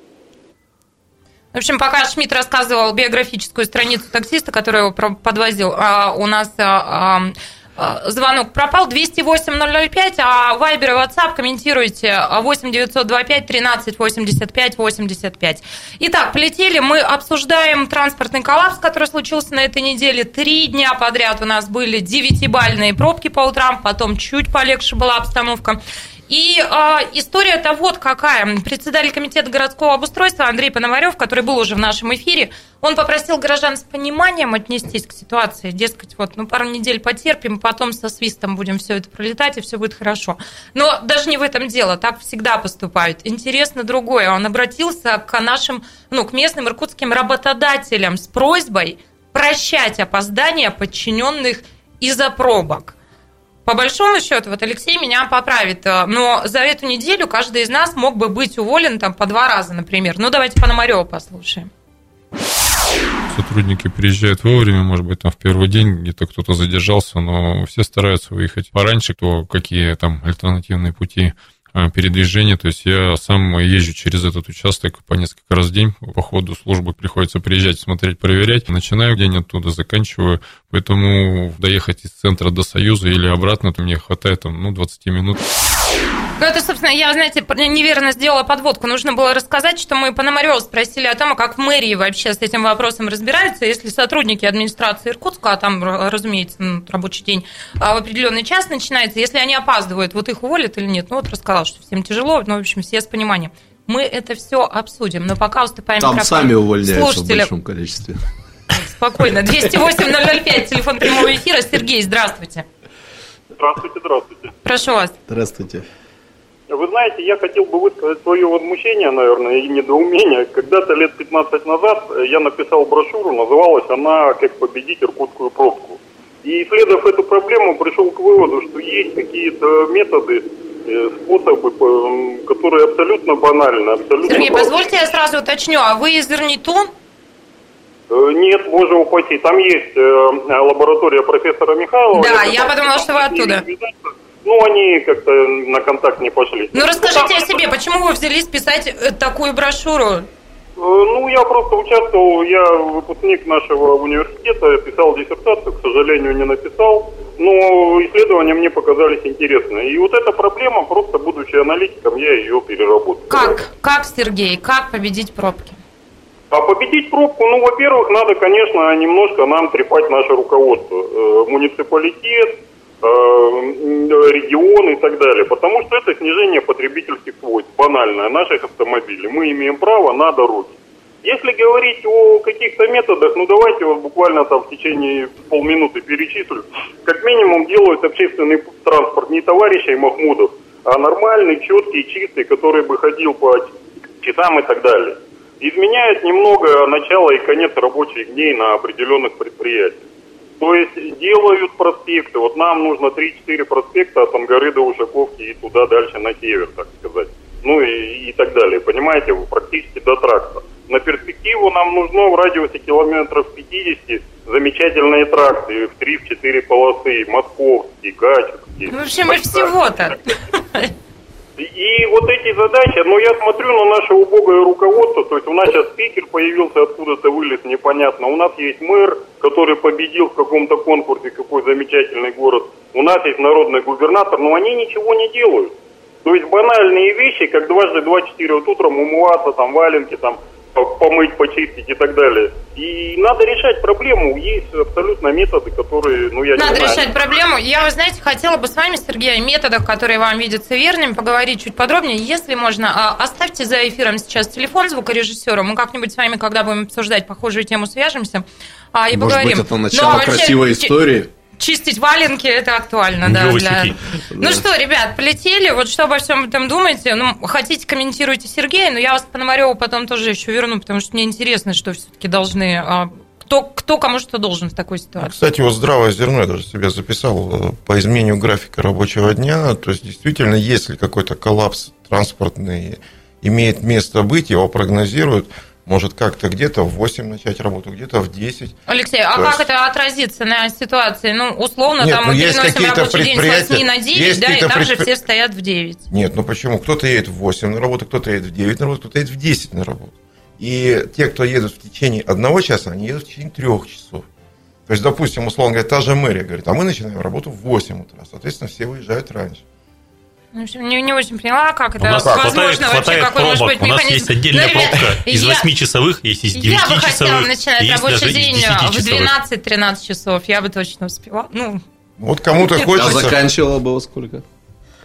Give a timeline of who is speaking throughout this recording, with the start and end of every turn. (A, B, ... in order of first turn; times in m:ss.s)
0:01.5-0:52.9 A
0:53.6-1:01.7 A
1:03.3-1:25.4 B
1:26.4-1:47.5 A
1:46.0-1:48.2 C
1:48.7-1:52.6 A
1:53.6-1:54.5 D
1:54.6-1:55.1 A
1:55.3-1:55.8 C
1:56.7-2:14.7 D
2:14.2-2:16.9 A
2:18.1-2:27.6 D
2:22.1-2:23.6 A
2:26.7-2:30.3 A
2:30.8-2:43.5 D
2:43.3-2:45.8 A
2:46.5-3:20.1 D
3:20.6-3:39.7 D
3:38.9-3:40.2 A
3:41.6-4:07.1 D
4:06.5-4:20.9 A
4:19.1-4:21.3 C
4:21.6-4:35.3 A
4:23.2-4:24.0 E
4:24.3-4:24.6 C
4:35.2-4:48.8 F
4:48.9-4:56.0 A
4:49.3-4:49.6 F
4:52.0-4:55.1 F
4:56.1-5:04.2 F
5:04.9-5:09.6 F
5:10.5-5:15.7 A
5:12.0-5:19.3 E
5:16.5-5:21.8 A
5:22.2-5:23.4 F
5:22.9-5:24.4 C